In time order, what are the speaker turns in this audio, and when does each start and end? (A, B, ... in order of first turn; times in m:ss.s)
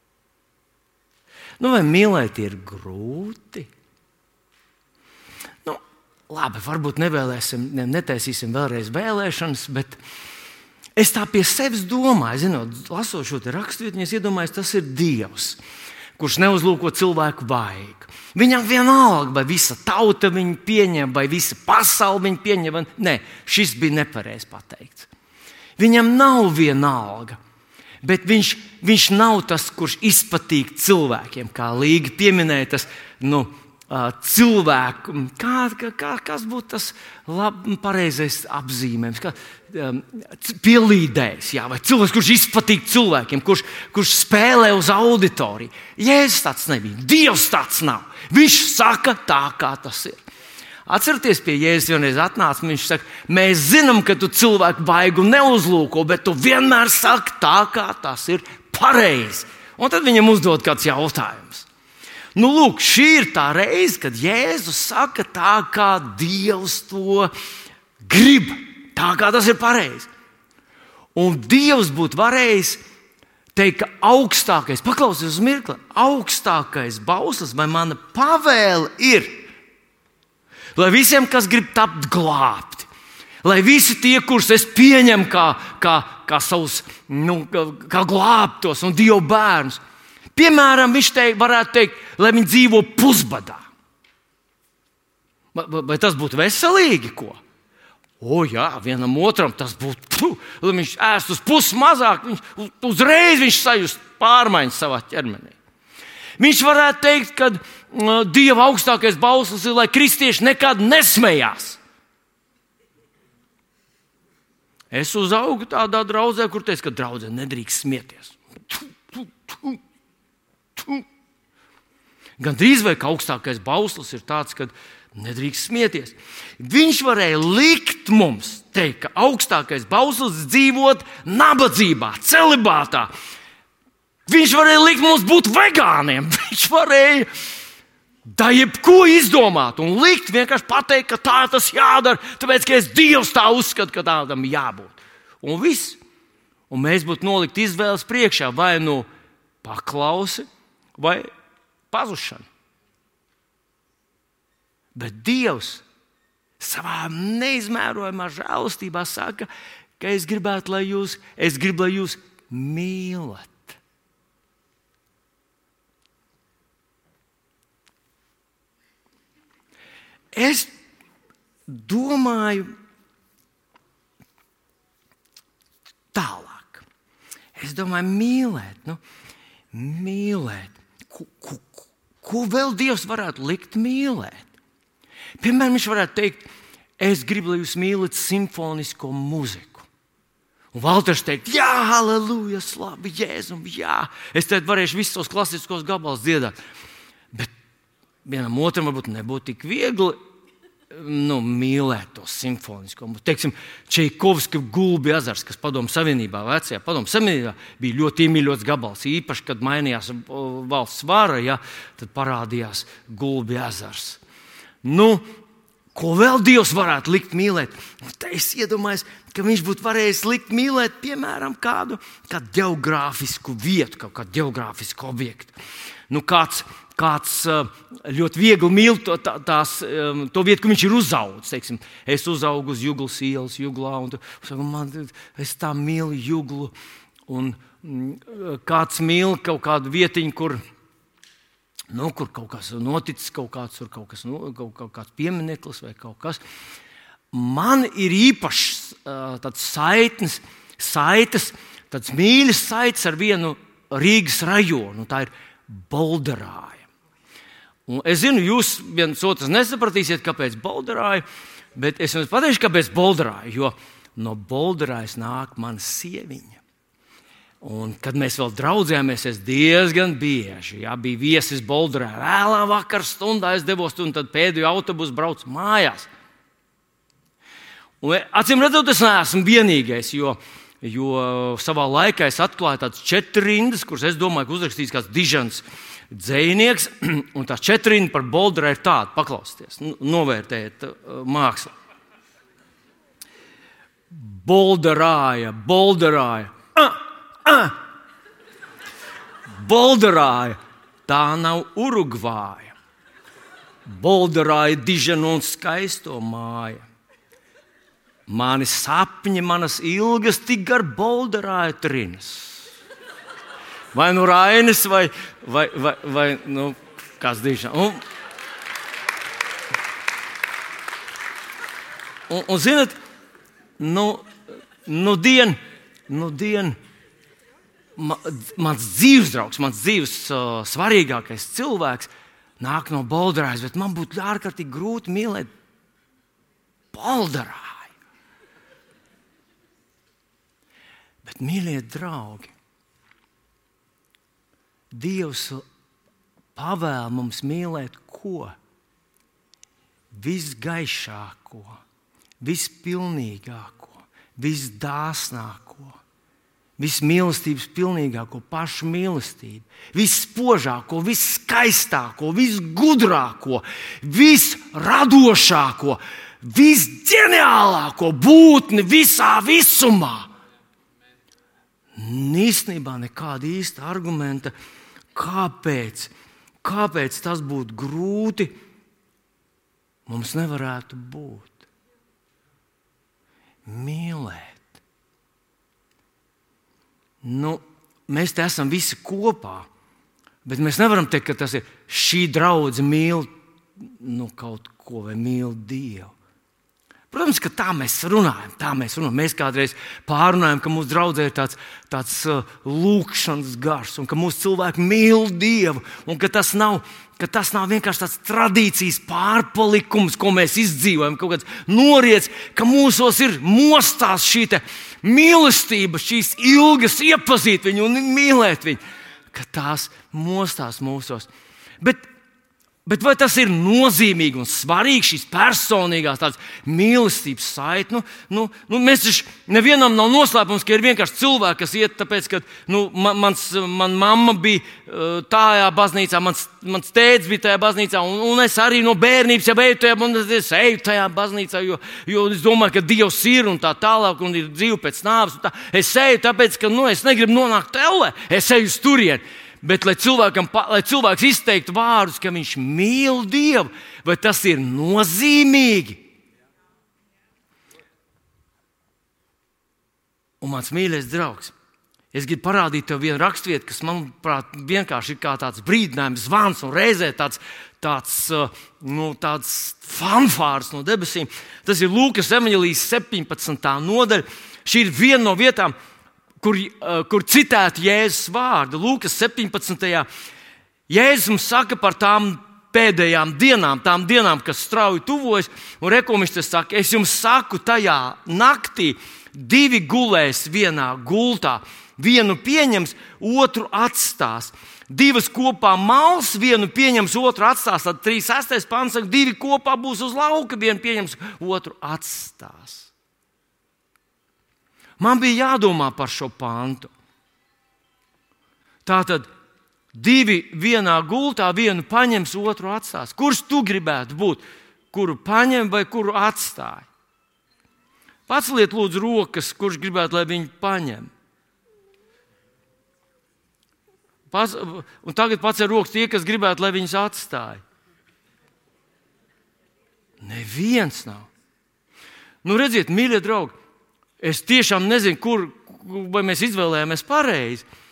0:01.6-0:03.7 A
0:05.6-0:10.0 A
0:11.0-0:15.6 A
0:16.2-0:25.1 A
0:25.8-0:27.4 A
0:28.0-0:50.2 A
0:50.8-1:01.7 A
1:02.3-1:07.3 A
1:08.0-1:10.1 A
1:11.1-1:12.8 A
1:13.5-1:19.4 A
1:20.8-1:22.9 A
1:23.4-1:29.8 A
1:30.3-1:33.6 A
1:35.5-1:37.4 A
1:38.2-1:45.6 A
1:46.4-1:51.8 A
1:54.9-1:59.8 A
2:00.8-2:01.0 A
2:02.4-2:13.1 A
2:14.3-2:17.3 A
2:18.2-2:26.0 A
2:26.7-2:29.1 A
2:29.6-2:31.3 A
2:31.9-2:32.4 A
2:34.9-2:35.8 A
2:36.6-2:43.8 A
2:50.3-2:50.7 A
2:51.7-2:52.7 A
2:56.1-2:56.8 A
2:57.5-2:59.0 A
2:59.7-3:04.5 A
3:05.4-3:09.8 A
3:10.7-3:16.5 A
3:18.2-3:20.2 A
3:20.9-3:34.2 A
3:34.8-3:35.2 A
3:35.9-3:45.5 A
3:46.1-3:56.7 A
3:57.3-4:00.6 A
4:01.9-4:06.4 A
4:07.3-4:16.9 A
4:17.9-4:21.2 A
4:21.7-4:26.6 A
4:27.6-4:36.1 A
4:38.0-4:51.7 A
4:54.1-4:57.8 A
4:59.6-5:02.7 A
5:03.8-5:06.8 A
5:08.3-5:12.7 A
5:13.9-5:18.0 A
5:22.3-5:23.0 A
5:23.8-5:24.3 A
5:24.8-5:26.8 A
5:28.0-5:35.5 A
5:36.9-5:37.9 A
5:41.2-5:42.5 A
5:44.9-5:45.6 A
5:46.5-5:48.5 A
5:50.1-5:51.8 A
5:52.4-5:56.0 A
5:56.8-6:10.3 A
6:11.9-6:14.5 A
6:15.1-6:16.1 A
6:16.6-6:18.5 A
6:20.1-6:21.6 A
6:23.6-6:24.7 A
6:27.2-6:29.7 A
6:30.4-6:33.3 A
6:33.8-6:36.1 A
6:37.1-6:58.8 A
6:59.3-7:01.3 A
7:02.8-7:36.0 A
7:40.4-7:41.5 A
7:42.1-7:55.7 A
7:56.4-8:00.1 A
8:00.9-8:22.9 A
8:25.0-8:26.9 A
8:28.8-8:29.3 A
8:29.9-8:36.9 A
8:38.3-8:41.1 A
8:44.3-8:47.6 A
8:50.2-8:51.3 A
8:52.4-8:53.5 A
8:54.2-8:57.6 A